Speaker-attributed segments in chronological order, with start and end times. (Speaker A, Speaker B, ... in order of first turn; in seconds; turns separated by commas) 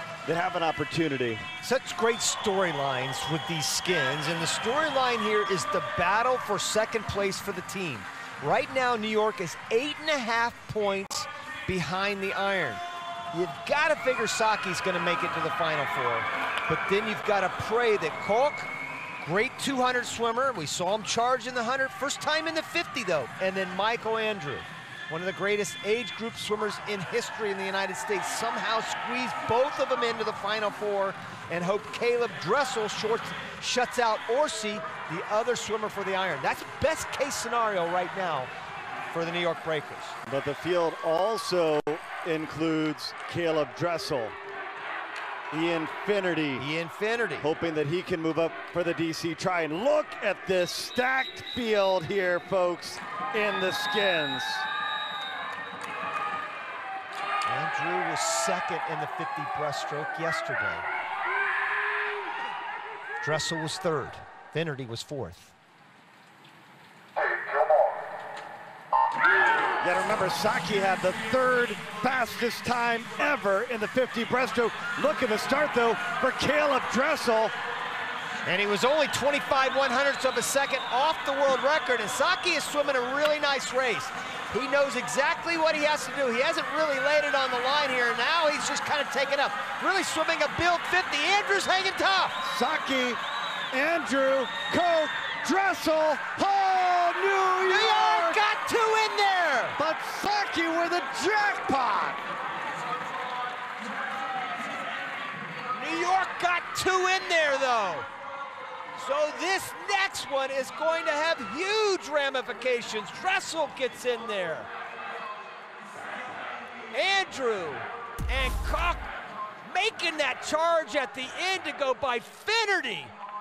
Speaker A: 0.2-1.4, Speaker B: 1.6-12.8, Speaker B: 13.3-18.7, Speaker B: 19.2-38.5, Speaker B: 39.1-40.2, Speaker A: 40.2-44.4, Speaker A: 45.5-46.7, Speaker B: 46.6-47.5, Speaker A: 47.4-54.7, Speaker B: 57.5-60.8, Speaker B: 63.2-65.5, Speaker A: 69.8-77.5, Speaker B: 78.5-92.4, Speaker A: 92.4-93.2, Speaker A: 93.7-98.4, Speaker B: 97.7-99.8, Speaker A: 99.8-102.2, Speaker B: 105.7-108.1, Speaker B: 109.0-114.7, Speaker B: 116.9-119.1, Speaker B: 119.6-123.1